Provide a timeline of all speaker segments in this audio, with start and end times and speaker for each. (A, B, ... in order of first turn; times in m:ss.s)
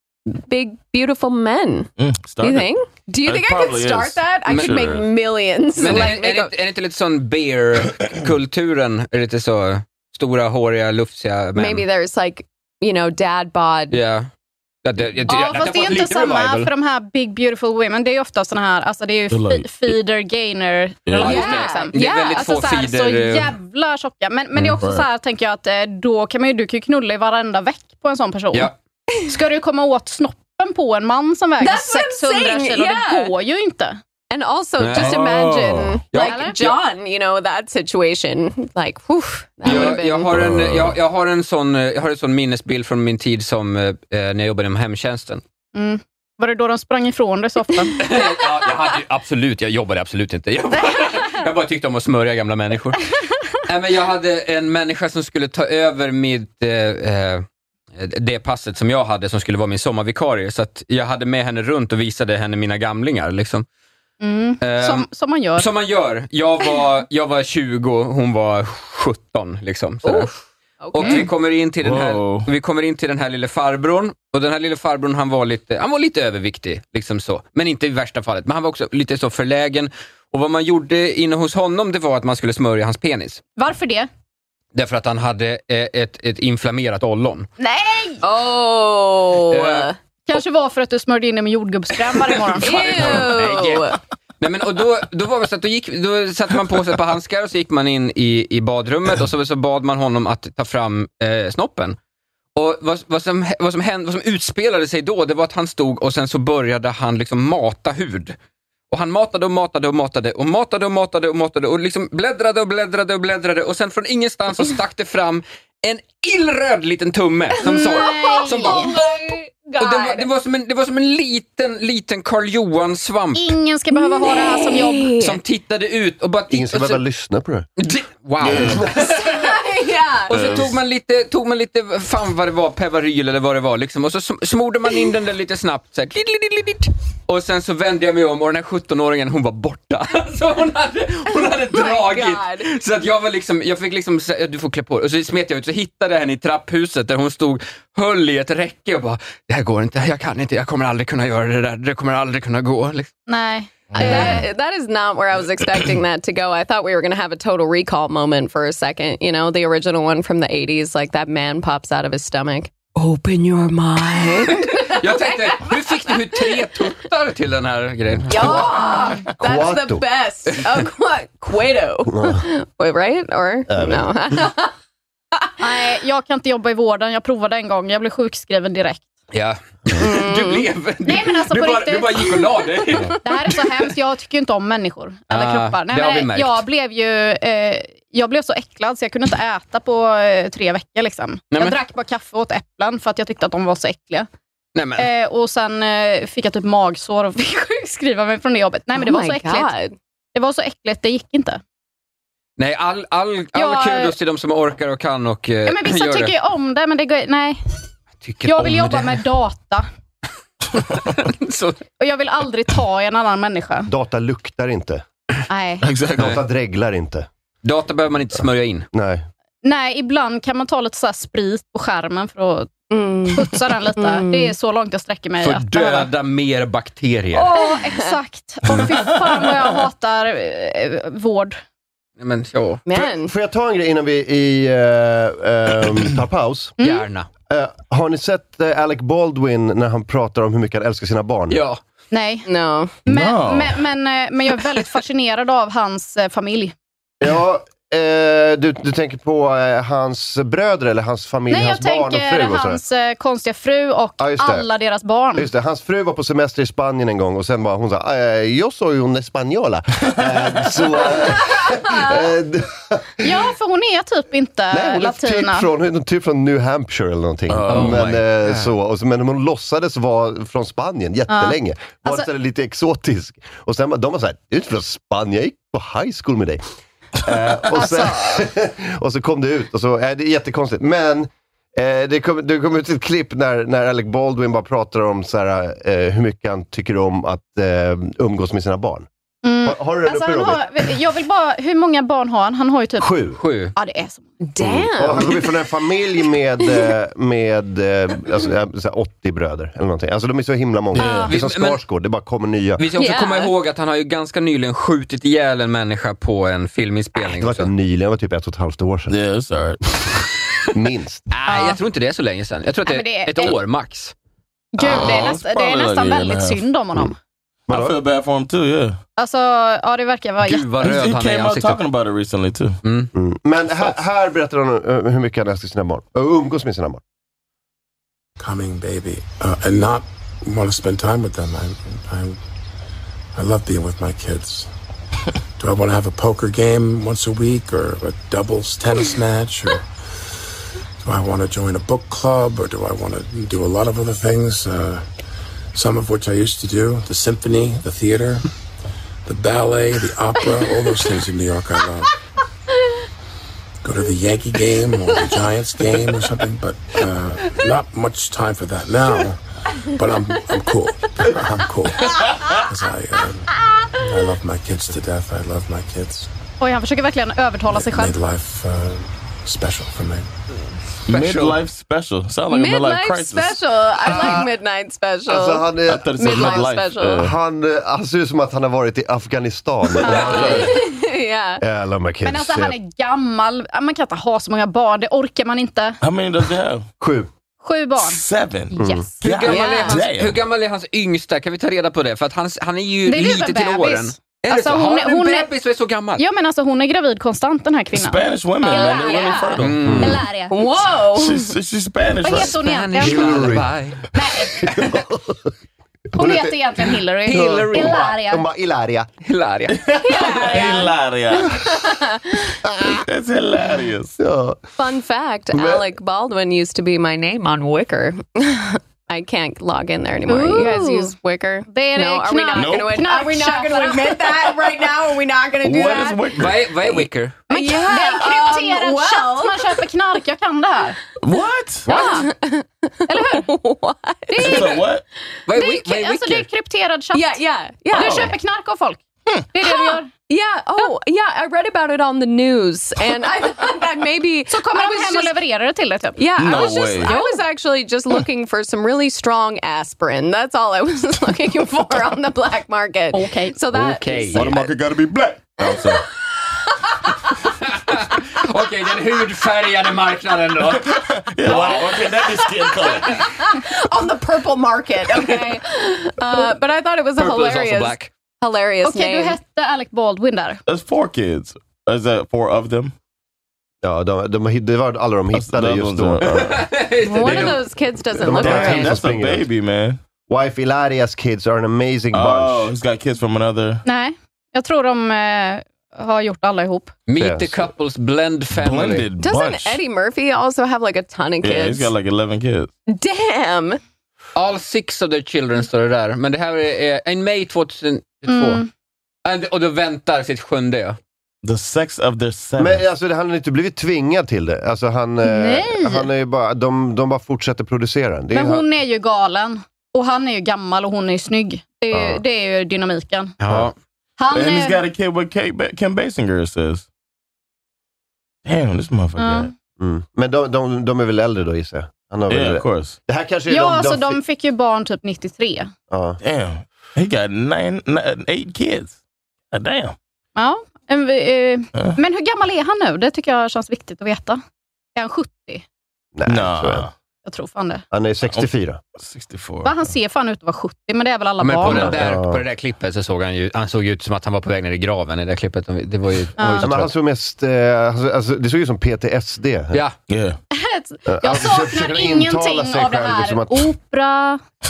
0:00.3-0:06.5 A
0:02.0-0:02.7 B
0:03.2-0:05.1 B
0:04.5-0:04.8 C
0:05.8-0:11.9 C
0:11.6-0:14.0 A
0:13.9-0:14.3 C
0:14.8-0:16.7 C
0:15.3-0:28.7 D
0:19.3-0:19.9 B
0:21.1-0:21.5 B
0:21.2-0:23.5 C
0:21.2-0:22.5 A
0:24.6-0:25.1 B
0:29.3-0:34.0 D
0:31.6-0:33.3 A
0:34.3-0:40.3 A
0:34.8-0:35.2 C
0:34.9-0:36.0 B
0:36.1-0:36.4 C
0:36.2-0:36.7 D
0:39.6-0:45.4 C
0:39.7-0:41.0 B
0:45.8-0:48.0 D
0:47.8-0:48.2 A
0:48.0-0:53.0 C
0:53.7-0:57.4 C
0:58.0-1:03.7 C
1:04.2-1:05.7 D
1:04.6-1:10.4 C
1:10.8-1:11.2 A
1:10.9-1:23.4 C
1:11.0-1:11.3 D
1:11.8-1:12.5 B
1:23.6-1:24.1 D
1:24.8-1:27.5 C
1:27.6-1:28.2 D
1:28.2-1:30.0 A
1:29.5-1:29.9 C
1:30.3-1:33.2 D
1:32.6-1:42.0 C
1:32.6-1:34.0 A
1:42.6-1:48.4 C
1:48.9-1:58.8 C
1:57.6-1:58.9 D
1:57.8-2:00.2 A
1:59.8-2:03.6 C
2:03.4-2:05.1 D
2:03.9-2:05.4 A
2:05.2-2:07.0 C
2:06.5-2:07.7 E
2:07.8-2:09.6 C
2:08.4-2:08.8 B
2:08.5-2:08.9 E
2:09.0-2:10.6 A
2:10.3-2:33.1 C
2:10.3-2:10.8 B
2:21.7-2:22.7 A
2:33.3-2:34.5 D
2:33.9-2:34.2 B
2:34.0-2:46.7 A
2:44.7-2:48.7 C
2:48.3-2:54.7 A
2:48.4-2:50.0 E
2:52.1-2:52.4 E
2:53.7-2:54.4 E
2:55.6-2:59.1 D
2:59.3-3:03.2 C
3:00.0-3:00.7 A
3:01.0-3:02.4 D
3:03.2-3:14.3 D
3:05.3-3:06.6 C
3:11.5-3:11.8 C
3:14.8-3:15.1 C
3:15.0-3:19.7 D
3:18.9-3:20.0 A
3:20.4-3:21.6 D
3:22.6-3:26.3 C
3:23.6-3:24.1 D
3:25.7-3:27.6 D
3:28.2-3:29.2 C
3:28.4-3:29.9 D
3:30.8-3:31.8 C
3:32.0-3:33.9 D
3:33.9-3:35.0 E
3:35.5-3:35.8 D
3:35.8-3:36.4 B
3:36.2-3:37.3 E
3:37.6-3:38.9 C
3:38.9-3:39.3 E
3:39.6-3:42.8 D
3:42.9-3:44.5 A
3:43.3-3:46.1 D
3:45.4-3:47.5 C
3:47.3-3:51.6 D
3:47.6-3:48.2 A
3:48.7-3:49.5 B
3:52.2-3:52.8 C
3:52.9-3:53.3 A
3:52.9-3:56.7 E
3:56.8-3:57.1 D
3:56.8-3:57.3 C
3:57.5-4:01.6 E
4:01.5-4:01.8 C
4:02.1-4:02.5 D
4:02.5-4:03.0 A
4:03.0-4:06.8 D
4:03.1-4:03.8 B
4:07.2-4:12.8 E
4:11.5-4:15.5 D
4:14.2-4:14.7 E
4:15.4-4:23.3 E
4:23.2-4:25.7 D
4:24.7-4:36.6 E
4:27.5-4:28.6 B
4:27.7-4:28.1 C
4:31.3-4:32.3 D
4:37.2-4:49.1 E
4:37.7-4:38.4 D
4:49.4-4:53.1 D
4:49.6-4:50.7 E
4:53.0-4:53.4 E
4:53.4-4:53.7 C
4:53.8-4:54.3 D
4:54.4-4:55.6 A
4:54.6-5:02.8 E
5:01.0-5:01.3 B
5:01.0-5:01.3 D
5:01.3-5:01.8 C
5:02.8-5:07.7 C
5:03.0-5:03.5 A
5:07.2-5:09.1 E
5:09.1-5:09.8 B
5:10.7-5:11.2 E
5:11.3-5:14.1 C
5:11.5-5:11.8 D
5:12.9-5:13.6 D
5:14.8-5:17.2 D
5:14.8-5:16.6 B
5:17.7-5:18.0 E
5:17.7-5:19.0 B
5:19.2-5:20.6 D
5:20.4-5:21.8 C
5:20.8-5:22.8 B
5:22.8-5:23.1 C
5:23.2-5:27.0 E
5:28.4-5:32.4 F
5:33.4-5:34.7 F
5:35.6-5:39.9 F
5:41.0-5:45.1 F
5:45.7-5:48.5 F
5:49.3-5:52.1 F
5:53.8-6:06.3 F
6:02.1-6:02.6 B
6:06.6-6:08.2 D
6:07.7-6:10.3 F
6:11.1-6:13.6 B
6:11.1-6:11.6 C
6:12.5-6:17.3 A
6:14.1-6:14.4 E
6:15.3-6:16.6 E
6:15.9-6:17.3 B
6:17.2-6:20.7 E
6:20.0-6:20.6 D
6:20.1-6:21.6 A
6:20.2-6:20.7 B
6:21.6-6:22.8 E
6:22.2-6:26.0 D
6:26.0-6:26.9 B
6:27.0-6:27.3 E
6:27.6-6:28.2 D
6:28.0-6:30.4 B
6:28.7-6:30.0 D
6:28.8-6:29.0 E
6:29.2-6:36.2 C
6:33.1-6:35.5 D
6:36.2-6:40.6 D
6:38.0-6:40.2 B
6:38.6-6:39.6 A
6:39.6-6:40.2 C
6:39.9-6:40.2 E
6:40.5-6:41.5 A
6:41.1-6:42.6 B
6:42.2-6:43.4 D
6:42.5-6:44.0 C
6:43.0-6:43.7 E
6:44.1-6:44.6 D
6:44.7-6:45.3 E
6:46.1-6:49.1 E
6:46.2-6:48.4 D
6:47.3-6:48.1 C
6:49.2-6:49.9 C
6:49.7-6:51.6 B
6:50.0-6:52.4 A
6:52.7-6:53.0 E
6:53.0-6:54.2 B
6:54.2-6:54.6 E
6:54.8-7:06.4 A
6:55.6-6:55.8 E
7:00.3-7:01.1 D
7:01.7-7:04.2 D
7:02.6-7:03.0 B
7:05.6-7:07.0 B
7:06.4-7:07.4 C
7:07.5-7:11.0 D
7:07.5-7:09.8 A
7:11.2-7:11.9 B
7:11.9-7:12.3 D
7:11.9-7:14.8 A
7:13.1-7:13.5 D
7:14.3-7:14.8 D
7:14.4-7:15.0 B
7:15.5-7:16.5 C
7:15.5-7:17.4 D
7:17.1-7:18.3 A
7:17.9-7:20.1 D
7:18.0-7:18.3 B
7:19.6-7:25.4 A
7:24.5-7:27.4 D
7:26.2-7:34.6 A
7:26.4-7:27.1 B
7:33.1-7:33.6 D
7:33.7-7:34.7 C
7:34.3-7:36.0 B
7:37.7-7:42.0 C
7:40.8-7:43.2 B
7:42.8-7:49.4 A
7:47.2-7:48.1 C
7:48.8-7:50.6 D
7:50.7-7:52.9 B
7:53.8-7:56.6 E
7:55.3-7:56.6 B
7:56.3-7:57.6 C
7:57.0-7:59.0 A
7:57.2-7:57.5 B
7:58.2-7:59.4 E
7:58.2-8:00.0 B
8:00.3-8:02.7 E
8:02.1-8:03.8 B
8:03.8-8:06.9 D
8:07.1-8:09.1 C
8:07.2-8:07.6 E
8:08.6-8:09.8 B
8:09.2-8:11.9 A
8:11.4-8:12.7 B
8:12.9-8:13.8 A
8:14.4-8:18.6 C
8:18.3-8:18.7 D
8:19.2-8:21.0 C
8:21.4-8:22.8 B
8:22.6-8:28.6 E
8:25.2-8:26.1 D
8:28.3-8:33.4 D
8:31.9-8:32.2 E
8:33.4-8:33.7 C
8:34.2-8:34.8 D
8:34.3-8:36.9 B
8:38.4-8:39.5 B
8:39.2-8:39.5 D
8:39.8-8:44.2 E
8:42.3-8:43.0 B
8:43.5-8:45.7 D
8:45.9-8:46.2 E
8:46.2-8:49.0 B
8:49.5-8:50.0 B
8:50.4-8:54.4 D
8:55.0-8:55.6 D
8:56.2-8:56.9 E
8:56.3-8:56.9 B
8:57.2-8:57.8 D
8:57.9-8:58.8 E
8:58.3-8:59.9 B
8:59.6-9:02.0 D
9:01.4-9:06.9 C
9:01.7-9:02.4 E
9:06.4-9:06.7 D
9:06.6-9:09.8 E
9:10.1-9:10.4 B
9:10.5-9:14.4 D
9:11.1-9:13.7 E